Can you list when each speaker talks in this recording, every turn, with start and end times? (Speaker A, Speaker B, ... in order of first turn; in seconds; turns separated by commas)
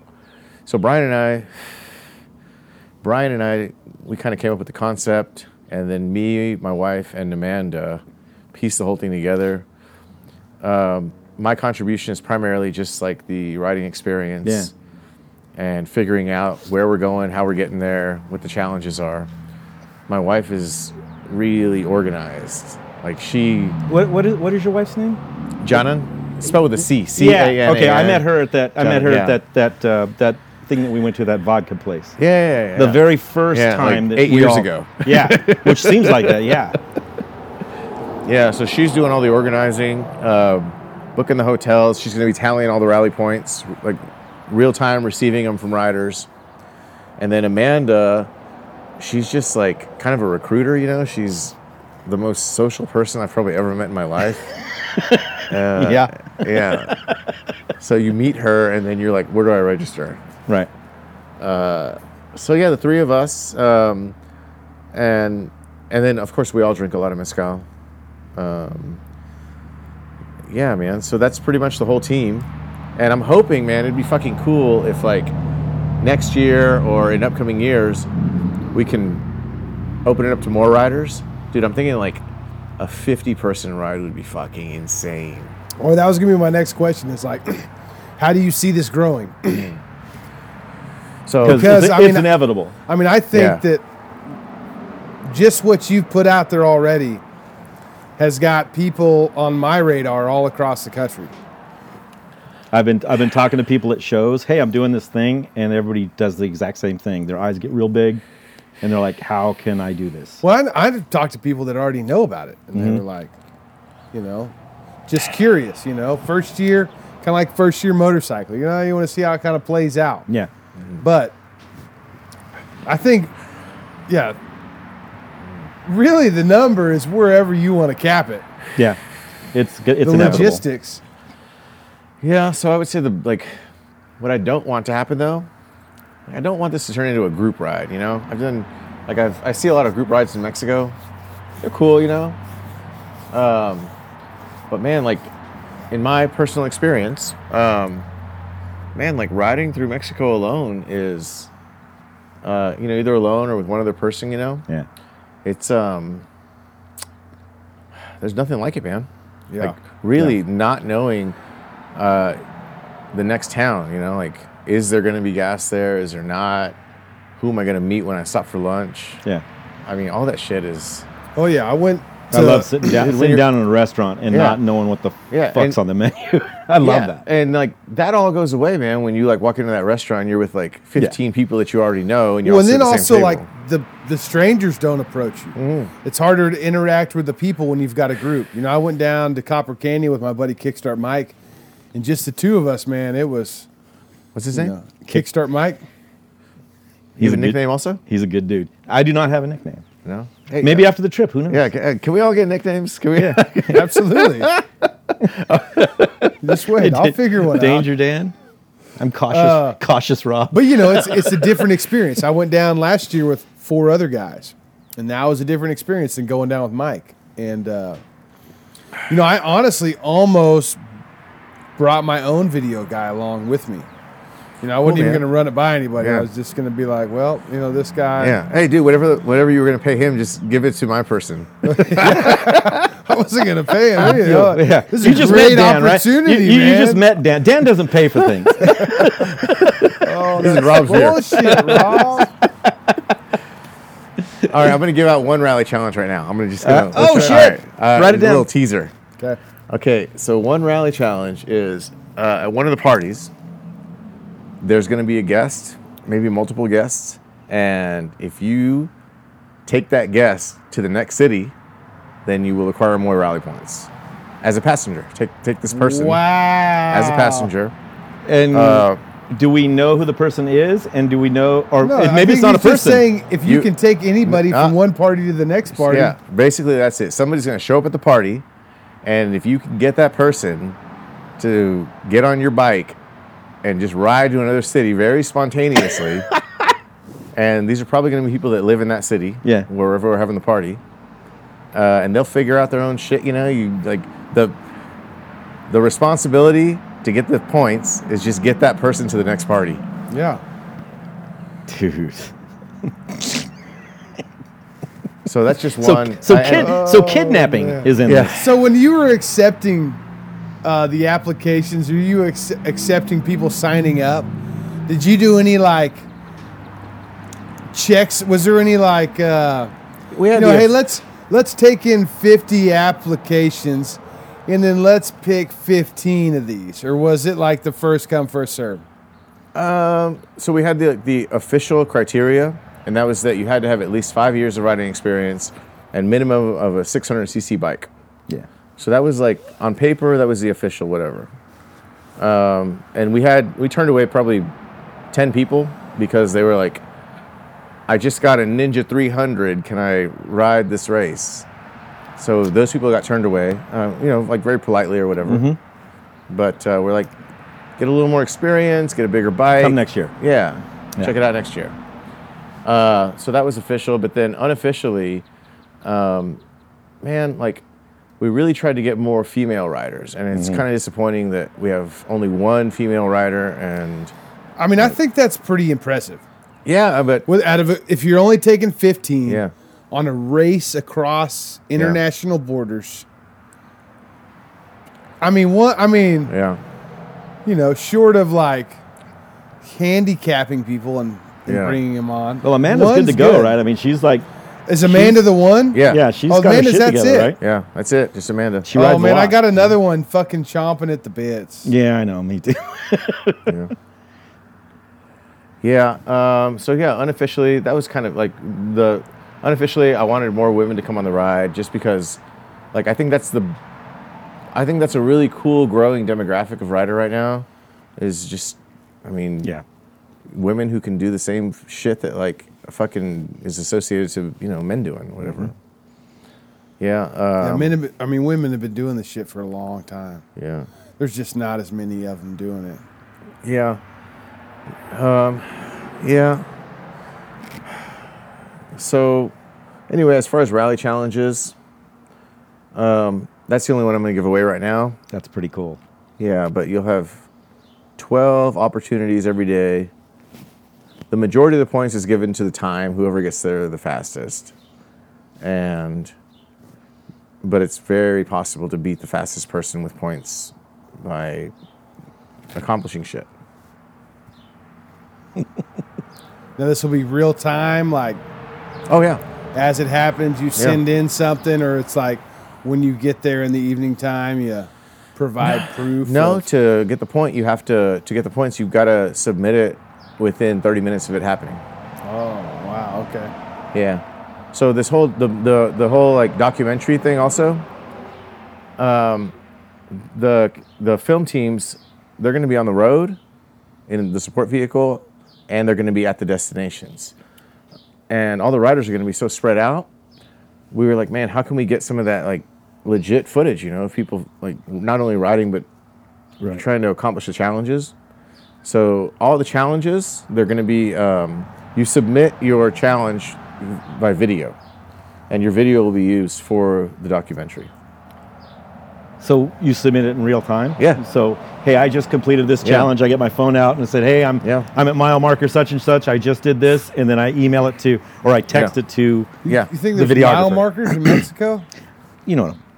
Speaker A: 0.7-1.9, Speaker A: 3.0-9.7, Speaker A: 10.6-14.7, Speaker B: 14.4-14.7, Speaker A: 15.6-19.3, Speaker A: 20.1-23.8, Speaker B: 23.9-25.2, Speaker A: 25.6-28.3, Speaker B: 27.1-32.2, Speaker A: 28.8-29.4, Speaker A: 32.2-36.6, Speaker B: 32.8-36.8, Speaker A: 38.2-46.3, Speaker A: 47.2-48.3, Speaker A: 49.0-54.5, Speaker B: 54.9-57.2, Speaker A: 55.5-56.9, Speaker A: 57.8-60.2, Speaker A: 61.4-64.2, Speaker A: 64.9-67.7, Speaker A: 68.4-69.0, Speaker A: 70.5-75.3, Speaker A: 76.0-78.1, Speaker A: 78.7-79.2, Speaker A: 80.0-82.3, Speaker A: 82.8-85.5, Speaker C: 85.8-89.7, Speaker A: 91.3-91.9, Speaker B: 91.4-92.8, Speaker C: 91.5-92.3, Speaker C: 92.9-93.8, Speaker A: 93.3-93.6, Speaker C: 95.2-97.2, Speaker C: 98.2-101.3, Speaker B: 102.7-108.2, Speaker B: 108.8-110.4, Speaker C: 110.4-113.3, Speaker B: 112.7-113.0, Speaker C: 114.1-114.5, Speaker C: 115.1-120.3, Speaker C: 121.0-121.4, Speaker C: 122.9-123.3, Speaker C: 124.1-124.4, Speaker C: 125.9-128.4, Speaker B: 129.5-130.6, Speaker C: 130.0-131.0, Speaker A: 130.2-130.4, Speaker A: 132.2-133.5, Speaker A: 134.2-135.5, Speaker A: 136.3-140.9, Speaker A: 141.6-142.4, Speaker A: 143.3-143.9, Speaker A: 144.7-145.3, Speaker A: 145.9-148.1, Speaker A: 148.9-151.5, Speaker A: 152.4-154.6, Speaker A: 155.4-156.3, Speaker A: 158.2-159.1, Speaker C: 159.5-159.8, Speaker A: 159.6-161.4, Speaker A: 161.9-162.4, Speaker A: 163.1-166.8, Speaker A: 167.4-169.2, Speaker A: 169.9-171.1, Speaker C: 171.4-172.9, Speaker B: 172.3-177.2, Speaker A: 172.9-173.5, Speaker A: 174.3-174.6, Speaker A: 175.3-175.8, Speaker A: 176.8-183.5, Speaker C: 182.4-191.4, Speaker A: 185.6-185.9, Speaker C: 191.9-193.7, Speaker A: 194.3-194.7, Speaker C: 194.5-195.8, Speaker B: 197.2-199.8, Speaker A: 197.2-198.0, Speaker A: 200.1-200.9, Speaker B: 200.6-201.6, Speaker A: 201.5-203.8, Speaker B: 203.2-203.9, Speaker C: 203.6-204.5, Speaker A: 204.4-205.9, Speaker B: 205.8-208.3, Speaker C: 206.4-207.9, Speaker B: 209.0-211.6, Speaker C: 209.3-209.8, Speaker C: 210.5-218.0, Speaker C: 219.1-220.8, Speaker C: 221.8-223.9, Speaker C: 224.6-228.4, Speaker A: 224.8-225.2, Speaker A: 226.0-226.3, Speaker A: 228.2-232.9, Speaker C: 231.6-237.1, Speaker B: 234.0-240.0, Speaker C: 238.6-239.1, Speaker A: 238.7-239.7, Speaker C: 240.0-242.3, Speaker A: 240.3-241.5, Speaker B: 241.4-242.3, Speaker A: 244.4-248.9, Speaker B: 246.6-248.5, Speaker C: 246.9-247.5, Speaker A: 249.7-253.3, Speaker A: 254.6-258.9, Speaker A: 259.6-261.6, Speaker A: 262.2-263.9, Speaker A: 264.4-266.2, Speaker C: 265.7-267.5, Speaker A: 266.9-267.7, Speaker B: 268.3-273.1, Speaker A: 268.5-269.0, Speaker C: 271.8-276.1, Speaker A: 274.2-274.7, Speaker A: 275.7-278.4, Speaker A: 279.0-280.8, Speaker A: 281.4-283.0, Speaker A: 283.6-286.3, Speaker A: 287.3-290.8, Speaker A: 291.7-294.6, Speaker A: 295.7-299.8, Speaker C: 300.1-300.4, Speaker B: 301.7-302.3, Speaker B: 303.1-303.4, Speaker A: 305.2-308.5, Speaker B: 305.8-308.4, Speaker C: 308.3-310.0, Speaker C: 310.6-314.3, Speaker C: 314.9-316.1, Speaker C: 317.7-319.7, Speaker A: 320.1-320.8, Speaker C: 320.3-328.8, Speaker A: 329.5-337.9, Speaker A: 338.8-341.3, Speaker A: 342.2-344.5, Speaker A: 345.1-346.8, Speaker A: 347.9-351.5, Speaker A: 352.2-355.5, Speaker B: 355.2-355.6, Speaker A: 356.3-357.1, Speaker A: 357.8-361.8, Speaker B: 359.6-360.1, Speaker A: 362.6-365.2, Speaker A: 365.8-366.4, Speaker A: 367.0-367.6, Speaker A: 368.2-374.1, Speaker B: 370.3-370.6, Speaker C: 374.6-376.2, Speaker A: 376.6-377.3, Speaker C: 377.3-383.1, Speaker A: 379.3-379.5, Speaker C: 385.2-386.3, Speaker A: 386.3-386.6, Speaker C: 387.4-388.8, Speaker C: 389.6-393.6, Speaker A: 391.5-391.8, Speaker B: 392.4-394.3, Speaker C: 394.7-397.3, Speaker B: 394.9-395.2, Speaker A: 395.7-396.0, Speaker B: 395.8-397.4, Speaker A: 397.4-398.7, Speaker B: 398.6-399.5, Speaker C: 398.7-401.7, Speaker B: 401.6-403.6, Speaker A: 403.5-403.7, Speaker A: 405.6-412.2, Speaker A: 412.7-413.6, Speaker A: 414.5-417.4, Speaker A: 418.0-419.5, Speaker A: 420.3-425.5, Speaker A: 426.8-427.7, Speaker C: 427.4-430.2, Speaker A: 430.4-430.7, Speaker C: 431.0-432.8, Speaker A: 433.4-433.8, Speaker A: 434.9-436.4, Speaker A: 438.7-439.3, Speaker A: 439.9-441.6, Speaker A: 442.7-445.0, Speaker B: 445.1-445.8, Speaker A: 446.2-447.2, Speaker A: 448.0-449.9, Speaker A: 451.1-454.5, Speaker A: 455.4-456.1, Speaker A: 457.4-461.5, Speaker A: 462.5-463.3, Speaker C: 466.6-468.2, Speaker A: 468.9-469.2, Speaker C: 469.5-476.5, Speaker A: 476.0-481.6, Speaker C: 482.1-483.3, Speaker A: 483.7-487.6, Speaker A: 488.8-489.3, Speaker A: 489.9-493.2, Speaker A: 493.9-497.1, Speaker A: 498.1-499.9, Speaker A: 500.7-505.6, Speaker A: 506.5-507.9, Speaker A: 508.6-514.5, Speaker A: 515.3-517.7, Speaker B: 519.2-529.3, Speaker A: 522.6-522.9, Speaker A: 524.4-524.7, Speaker C: 529.4-531.7, Speaker A: 529.5-529.7, Speaker B: 529.9-531.1, Speaker B: 532.3-532.6